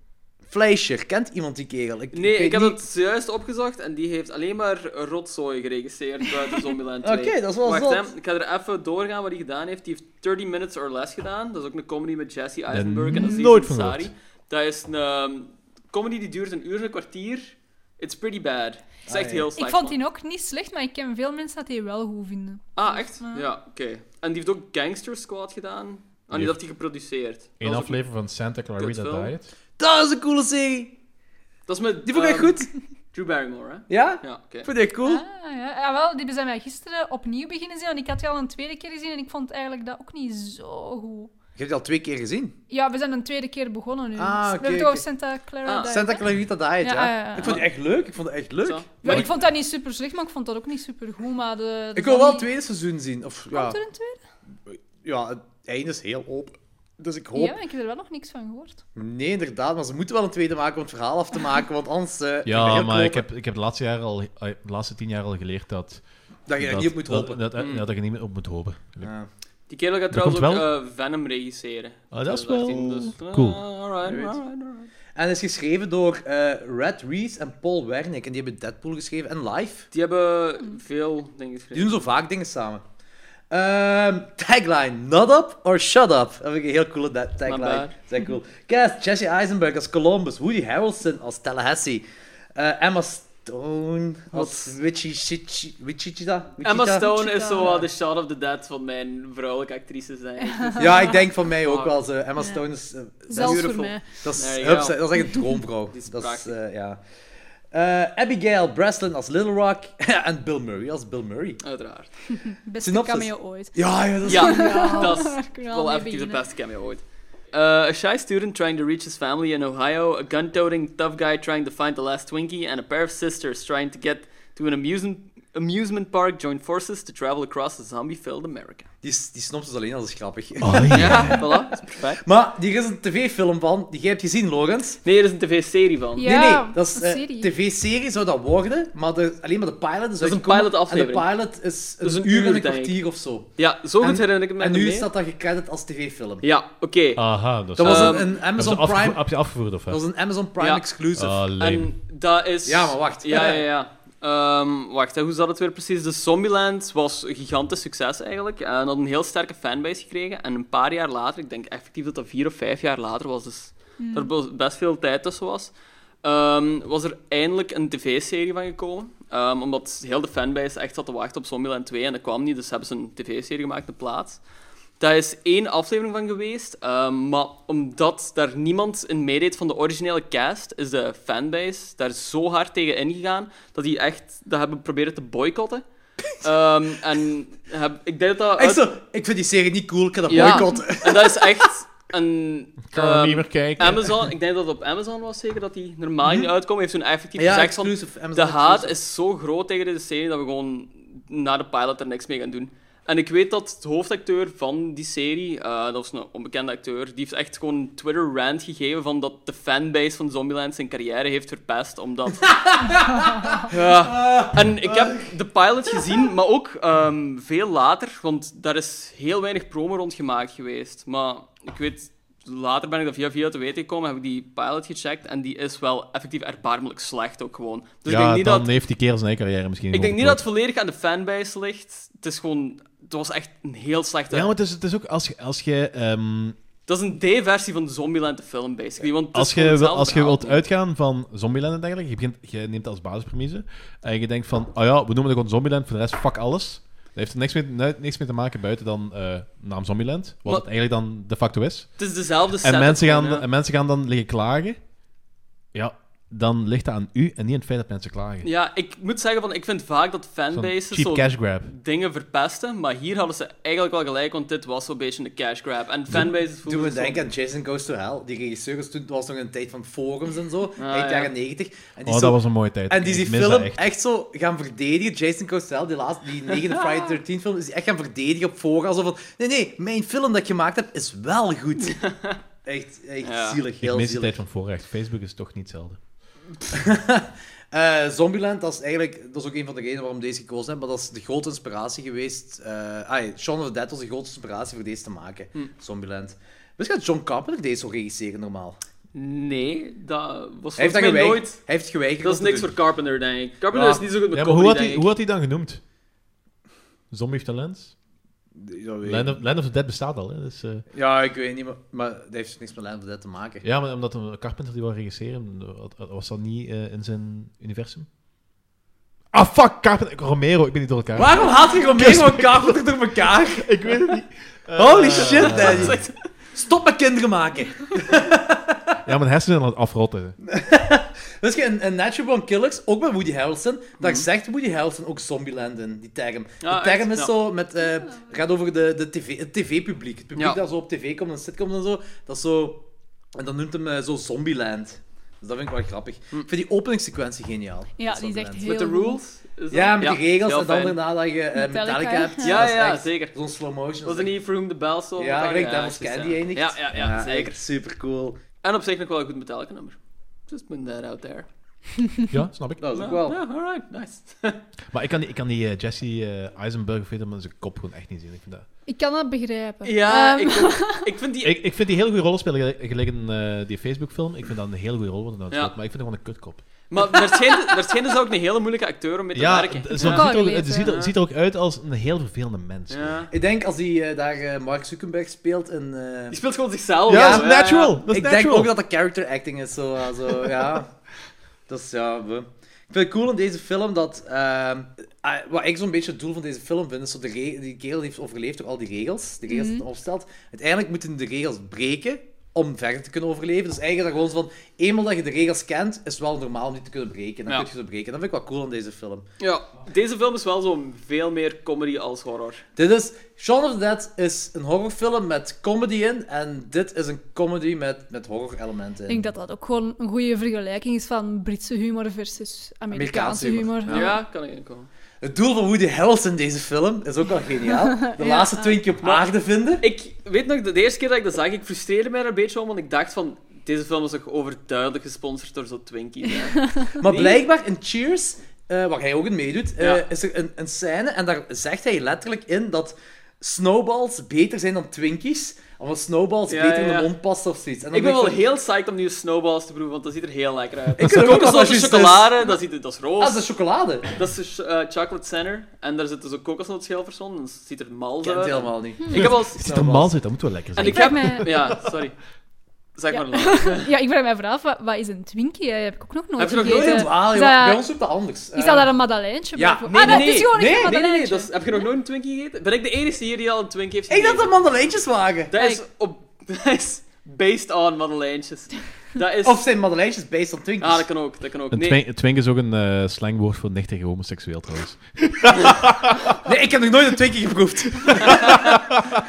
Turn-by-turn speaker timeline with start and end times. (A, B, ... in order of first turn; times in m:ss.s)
0:00.4-0:02.8 A
0:02.1-0:20.0 B
0:07.0-0:08.1 A
0:12.7-0:14.1 C
0:13.2-0:13.4 D
0:19.1-0:19.5 A
0:19.6-0:23.4 D
0:22.8-0:28.0 B
0:27.6-0:29.5 C
0:28.8-0:29.3 B
0:29.8-0:31.0 A
0:31.7-0:34.7 B
0:32.0-0:32.7 A
0:33.9-0:35.2 A
0:35.0-0:41.3 D
0:41.6-0:42.6 A
0:42.7-0:46.3 D
0:44.2-0:45.0 A
0:45.6-0:46.0 B
0:45.9-0:49.3 A
0:46.8-0:47.6 D
0:48.6-0:49.3 B
0:49.0-0:52.5 D
0:52.0-0:53.8 A
0:53.5-0:54.2 D
0:54.7-0:57.6 A
0:57.3-0:58.8 D
0:59.0-1:03.2 A
1:02.4-1:06.0 C
1:06.5-1:07.4 A
1:06.6-1:09.1 C
1:07.6-1:07.8 B
1:09.0-1:09.3 A
1:09.7-1:14.9 B
1:10.1-1:10.7 C
1:12.1-1:13.6 C
1:14.0-1:14.4 A
1:15.1-1:19.9 A
1:19.9-1:22.0 B
1:21.7-1:22.8 A
1:23.5-1:32.0 A
1:27.4-1:27.9 B
1:32.6-1:37.9 A
1:34.3-1:34.8 B
1:36.6-1:42.0 B
1:37.0-1:37.7 D
1:40.4-1:41.2 D
1:40.8-1:47.0 A
1:43.3-1:44.0 D
1:43.3-1:45.3 B
1:45.9-1:46.5 B
1:47.7-1:51.6 A
1:51.6-1:52.1 B
1:52.3-1:56.4 D
1:52.8-1:55.2 A
1:54.2-2:08.9 B
2:09.0-2:15.0 A
2:10.6-2:11.4 C
2:10.9-2:12.2 B
2:15.0-2:16.3 B
2:16.2-2:17.5 D
2:16.2-2:26.4 A
2:20.2-2:21.3 B
2:22.0-2:23.0 B
2:23.6-2:25.1 B
2:26.4-2:27.2 B
2:27.1-2:30.0 C
2:27.8-2:29.3 A
2:27.8-2:28.4 B
2:29.9-2:31.4 A
2:30.6-2:30.8 B
2:31.1-2:31.9 C
2:31.6-2:54.4 B
2:32.6-2:33.6 A
2:44.0-2:44.3 D
2:55.0-3:08.8 B
3:08.6-3:11.6 A
3:10.3-3:32.5 B
3:10.4-3:10.8 D
3:12.9-3:14.3 C
3:17.4-3:18.9 A
3:32.4-3:35.3 A
3:33.7-3:48.7 B
3:48.0-3:50.4 C
3:49.9-3:54.5 B
3:54.3-3:56.6 C
3:56.9-4:00.6 B
3:59.3-4:12.0 C
4:12.0-4:13.4 B
4:12.6-4:14.8 C
4:15.7-4:18.5 C
4:18.4-4:27.3 B
4:20.5-4:21.7 C
4:26.6-4:42.1 A
4:30.8-4:31.3 B
4:32.0-4:33.9 C
4:42.0-4:42.4 B
4:42.6-4:44.3 A
4:43.2-4:43.6 B
4:43.8-4:46.0 C
4:46.7-4:58.8 A
4:59.1-5:01.7 B
5:00.8-5:02.7 A
5:02.2-5:05.1 B
5:03.7-5:05.8 C
5:07.1-5:07.9 C
5:08.6-5:09.4 A
5:09.0-5:10.8 C
5:10.9-5:13.6 A
5:13.6-5:18.1 C
5:19.3-5:22.8 C
5:21.2-5:23.7 A
5:23.5-5:26.0 C
5:24.8-5:28.8 A
5:25.1-5:26.2 B
5:29.0-5:30.4 C
5:30.4-5:48.7 A
5:34.0-5:34.3 B
5:36.6-5:37.3 B
5:40.4-5:40.6 B
5:48.0-5:49.2 D
5:48.6-5:51.0 B
5:49.7-5:54.3 A
5:51.6-5:52.6 D
5:52.4-5:53.3 B
5:54.0-5:57.6 B
5:55.2-5:58.4 A
5:58.6-6:01.5 B
6:02.3-6:02.8 C
6:02.8-6:03.4 A
6:02.9-6:04.6 B
6:04.9-6:08.6 C
6:08.9-6:11.1 D
6:09.8-6:11.6 B
6:11.4-6:17.1 C
6:16.9-6:21.1 B
6:19.3-6:23.3 C
6:20.0-6:20.9 D
6:22.9-6:23.3 B
6:23.3-6:26.4 A
6:26.3-6:28.0 B
6:27.1-6:28.7 C
6:27.1-6:30.9 A
6:31.7-6:49.3 A
6:39.5-6:39.8 D
6:49.4-6:52.6 B
6:52.8-6:59.2 A
6:59.1-7:04.1 D
7:02.9-7:04.2 A
7:03.9-7:04.9 B
7:05.2-7:09.8 A
7:08.0-7:08.8 D
7:09.0-7:09.3 B
7:09.8-7:17.4 B
7:16.6-7:17.0 D
7:17.0-7:28.4 A
7:19.8-7:20.0 B
7:26.5-7:27.1 B
7:27.9-7:33.4 B
7:31.0-7:32.3 A
7:33.2-7:34.1 A
7:34.1-7:39.6 B
7:38.2-7:40.1 A
7:39.1-7:41.8 C
7:40.8-7:42.2 B
7:40.8-7:41.7 D
7:43.0-7:43.9 B
7:43.1-7:47.9 D
7:46.4-7:47.2 B
7:46.4-7:48.9 A
7:48.5-7:51.5 D
7:49.6-7:51.0 A
7:49.9-7:54.5 B
7:54.1-7:55.5 A
7:55.5-7:59.6 B
7:55.6-7:55.8 D
7:59.4-8:01.1 A
8:00.8-8:02.0 B
8:01.7-8:06.4 C
8:06.4-8:08.9 A
8:08.0-8:09.0 C
8:08.3-8:08.6 B